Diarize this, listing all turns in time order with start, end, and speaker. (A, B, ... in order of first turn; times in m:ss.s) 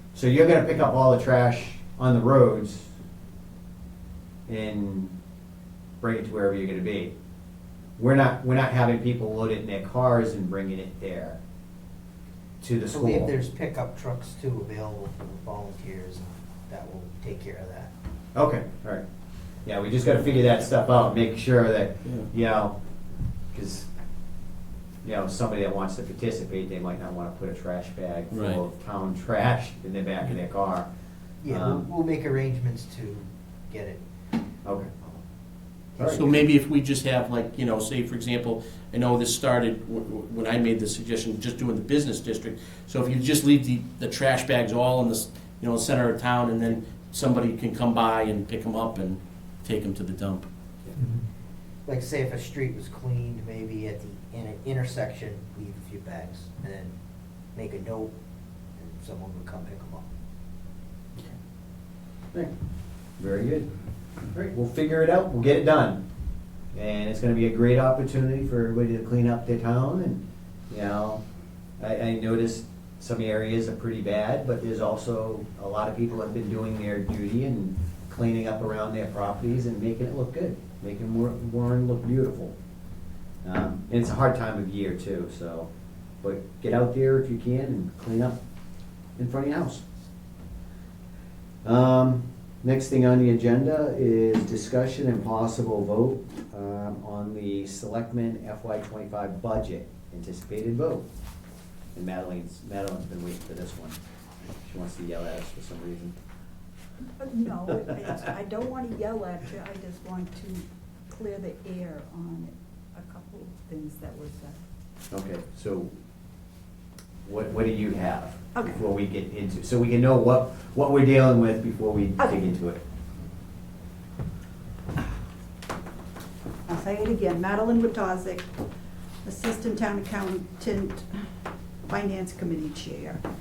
0:00.1-0:02.9 A
0:04.5-0:05.1 A
0:06.0-0:07.1 A
0:08.0-0:11.4 A
0:12.6-0:13.3 A
0:12.9-0:17.9 B
0:18.3-0:19.0 A
0:19.6-0:22.8 A
0:23.5-0:23.9 A
0:25.0-0:30.9 A
0:28.3-0:28.6 C
0:31.4-0:34.0 B
0:31.4-0:31.9 A
0:34.6-0:34.9 A
0:36.0-0:36.4 B
0:36.0-0:36.4 A
0:36.0-0:50.5 C
0:51.8-0:56.9 B
0:57.5-0:58.1 B
0:58.8-1:00.0 B
1:03.2-1:03.7 A
1:04.3-1:06.0 A
1:06.7-1:11.2 A
1:11.8-1:22.5 A
1:23.4-1:25.7 A
1:26.2-1:28.4 A
1:29.2-1:29.8 A
1:31.6-1:41.1 A
1:41.9-1:44.0 A
1:44.6-1:46.1 A
1:47.2-1:54.6 D
1:55.1-1:55.9 A
1:57.2-2:02.8 A
1:58.5-1:58.8 D
2:02.2-2:02.4 D
2:06.7-2:08.5 D
2:09.2-2:11.1 D
2:11.8-2:13.2 D